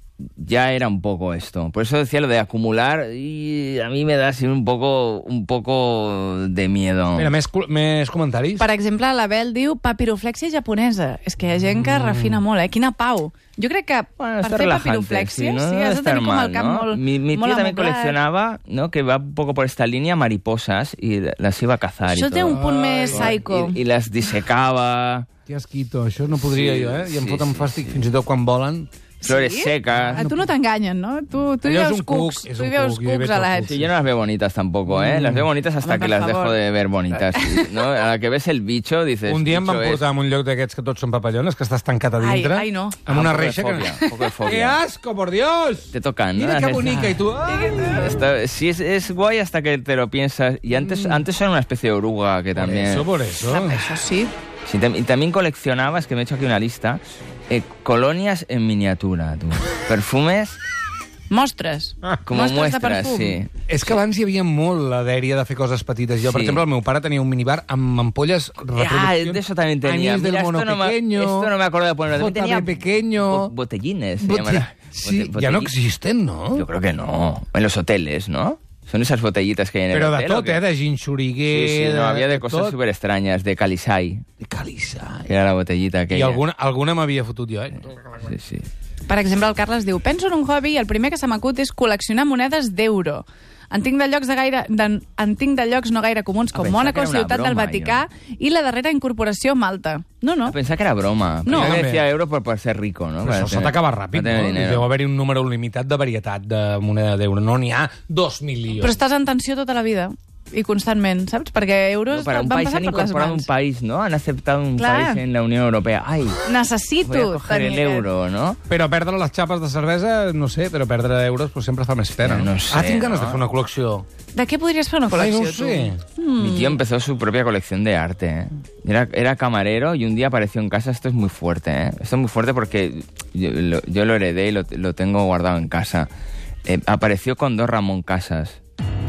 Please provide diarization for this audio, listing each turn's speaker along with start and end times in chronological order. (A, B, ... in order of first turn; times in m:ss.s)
0:00.4-0:07.3 A
0:07.2-0:08.7 B
0:08.6-0:18.2 C
0:11.7-0:12.4 B
0:14.2-0:25.3 A
0:22.1-0:23.8 C
0:22.5-0:23.4 B
0:25.5-0:28.9 B
0:26.3-0:28.0 A
0:29.2-0:33.8 C
0:29.2-0:30.3 A
0:29.9-0:30.5 B
0:31.6-0:33.9 B
0:33.6-0:40.1 A
0:34.9-0:35.5 B
0:35.8-0:36.6 C
0:37.3-0:37.8 C
0:39.2-0:48.1 B
0:42.2-0:43.0 C
0:43.1-0:44.8 A
0:43.8-0:44.1 C
0:45.9-0:47.2 A
0:47.5-0:48.2 C
0:47.9-0:53.2 A
0:50.7-0:51.3 B
0:52.6-0:53.9 B
0:53.4-0:54.3 C
0:54.7-1:00.6 A
1:01.3-1:03.4 C
1:02.2-1:04.0 A
1:03.7-1:11.5 B
1:06.2-1:06.6 A
1:08.6-1:15.7 A
1:12.1-1:13.5 B
1:14.2-1:16.7 B
1:16.6-1:20.6 A
1:19.9-1:22.8 B
1:21.5-1:24.2 A
1:24.4-1:25.3 B
1:25.3-1:26.4 A
1:26.1-1:28.2 B
1:28.2-1:28.7 A
1:29.1-1:40.6 C
1:36.5-1:38.0 A
1:40.5-1:44.9 A
1:41.5-1:41.8 C
1:41.5-1:42.1 B
1:43.2-1:49.0 B
1:48.8-1:53.5 C
1:52.1-1:56.4 A
1:54.8-1:55.2 C
1:56.4-1:58.1 C
1:57.0-1:58.6 A
1:58.7-2:04.1 B
2:02.2-2:03.4 A
2:04.3-2:06.8 C
2:05.1-2:06.0 B
2:06.4-2:16.1 A
2:16.7-2:18.6 A